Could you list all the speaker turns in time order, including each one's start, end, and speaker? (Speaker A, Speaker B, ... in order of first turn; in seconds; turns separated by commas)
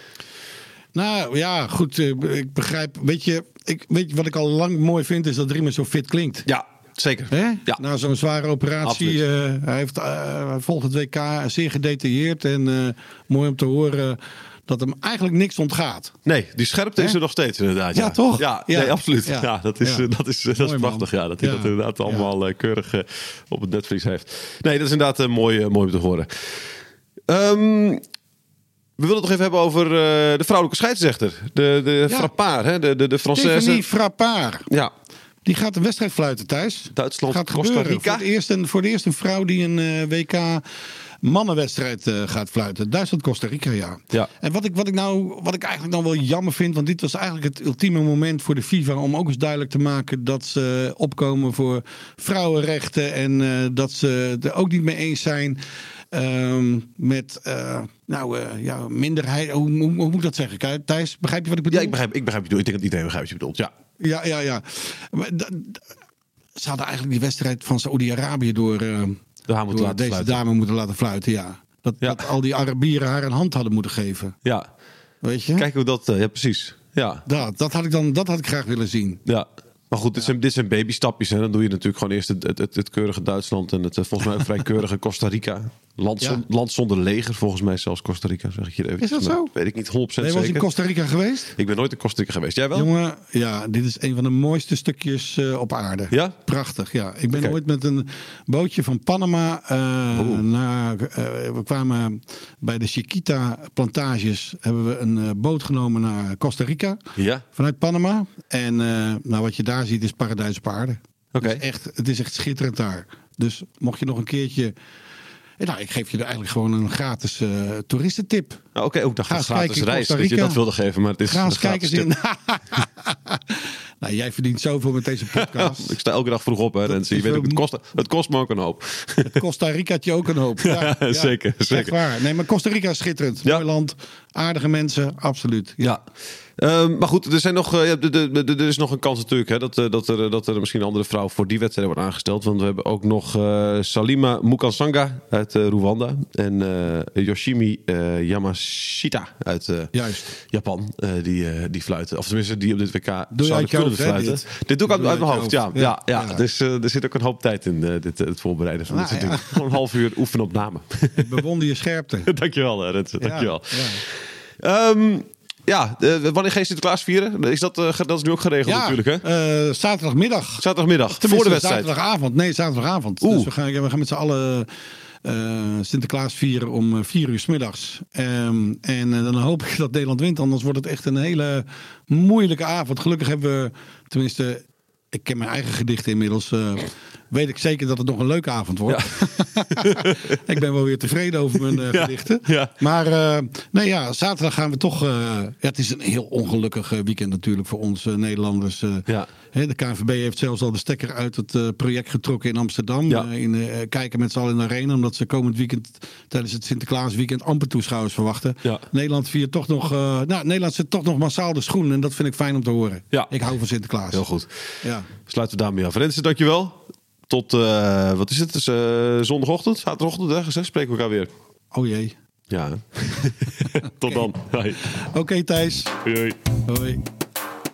Speaker A: 0.9-6.5, Speaker B: 6.5-7.8, Speaker A: 7.3-16.2, Speaker B: 8.8-9.2, Speaker B: 16.3-26.7, Speaker A: 17.9-22.3, Speaker B: 27.3-28.0, Speaker B: 29.0-33.8, Speaker A: 33.3-34.7, Speaker A: 35.5-40.6, Speaker B: 36.9-38.3, Speaker A: 41.2-55.6, Speaker A: 56.1-62.0, Speaker B: 61.7-63.7, Speaker A: 64.0-65.8, Speaker A: 66.6-74.4, Speaker B: 69.5-70.4, Speaker B: 72.0-72.3, Speaker A: 75.2-75.7, Speaker B: 75.6-77.3, Speaker A: 77.3-79.2, Speaker B: 79.3-90.7, Speaker A: 89.0-89.5, Speaker A: 90.2-91.5, Speaker B: 91.6-92.9, Speaker A: 92.8-107.0, Speaker B: 96.1-96.4, Speaker B: 97.3-97.6, Speaker B: 100.1-100.4, Speaker B: 107.2-107.4, Speaker A: 107.5-114.7, Speaker B: 111.3-111.6, Speaker A: 115.6-118.6, Speaker B: 118.8-122.1, Speaker A: 119.3-120.6, Speaker A: 121.3-125.9, Speaker B: 125.3-129.4, Speaker A: 126.9-127.6, Speaker A: 129.2-136.0, Speaker B: 130.6-132.0, Speaker B: 136.6-161.4, Speaker A: 149.9-150.3, Speaker A: 153.3-156.4, Speaker A: 158.9-159.6, Speaker A: 161.2-162.3, Speaker B: 162.3-169.2, Speaker A: 163.2-164.0, Speaker A: 168.7-174.7, Speaker B: 170.6-171.9, Speaker B: 173.2-173.5, Speaker A: 175.2-214.2, Speaker B: 189.7-190.2, Speaker B: 191.7-192.7, Speaker B: 214.1-214.5, Speaker A: 214.8-215.1, Speaker B: 215.2-221.3, Speaker A: 221.7-222.2, Speaker B: 222.5-224.9, Speaker A: 225.0-225.9, Speaker B: 226.0-226.4, Speaker A: 226.7-227.0